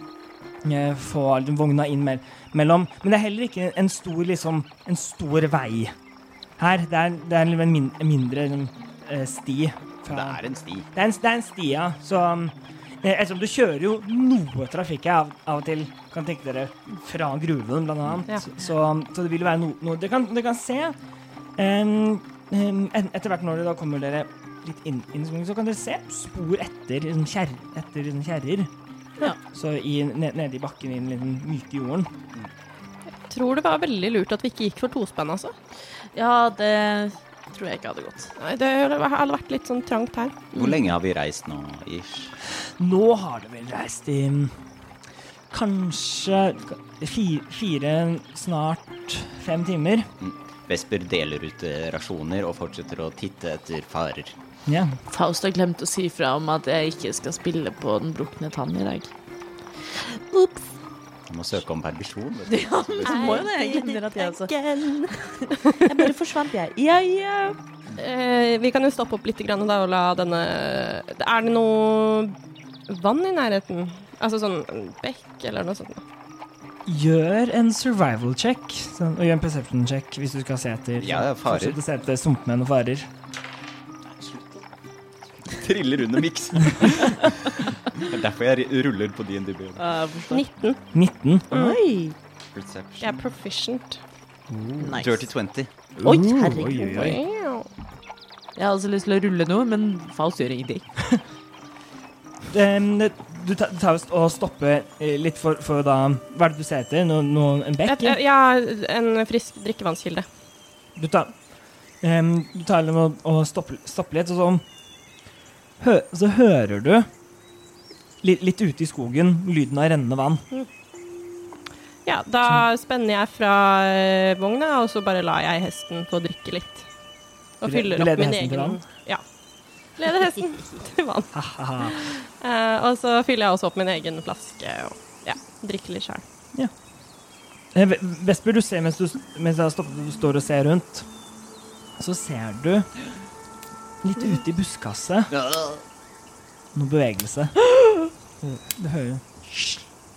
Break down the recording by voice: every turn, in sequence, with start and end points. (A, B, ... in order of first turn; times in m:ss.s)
0:00.6-0:05.9 A
0:06.6-0:10.4 A
0:10.1-0:10.9 B
0:10.9-0:21.0 A
0:21.6-0:28.7 A
0:29.5-0:32.1 A
0:33.3-0:35.6 C
0:36.1-0:38.3 D
0:38.4-0:40.4 C
0:40.5-0:40.8 D
0:40.5-0:42.3 B
0:42.6-0:44.6 A
0:45.5-0:50.1 A
0:50.2-0:54.4 B
0:54.6-0:55.0 A
0:55.1-0:59.1 D
0:59.9-1:00.7 D
1:01.3-1:03.5 B
1:02.5-1:07.6 D
1:03.0-1:05.8 C
1:08.0-1:12.4 C
1:12.9-1:16.0 C
1:16.9-1:23.1 A
1:21.0-1:21.8 B
1:24.1-1:24.6 B
1:25.4-1:29.9 B
1:29.8-1:30.5 D
1:30.3-1:30.8 C
1:30.9-1:31.6 A
1:31.5-1:32.2 D
1:31.5-1:31.8 C
1:32.5-1:33.2 B
1:33.0-1:34.0 C
1:34.5-1:35.0 A
1:34.8-1:35.3 D
1:35.0-1:35.7 B
1:36.0-1:37.2 A
1:36.0-1:37.1 D
1:36.8-1:37.7 C
1:38.6-1:40.9 D
1:42.5-1:48.2 A
1:47.8-1:50.3 C
1:51.0-1:51.4 A
1:52.0-1:54.6 A
1:55.8-1:57.1 A
1:58.2-2:00.4 A
2:02.0-2:06.9 C
2:07.6-2:09.3 C
2:07.6-2:08.8 A
2:09.8-2:16.2 C
2:11.3-2:12.0 A
2:17.7-2:21.1 A
2:22.0-2:23.0 A
2:24.0-2:25.3 A
2:25.3-2:25.8 B
2:26.7-2:27.6 A
2:28.4-2:29.4 A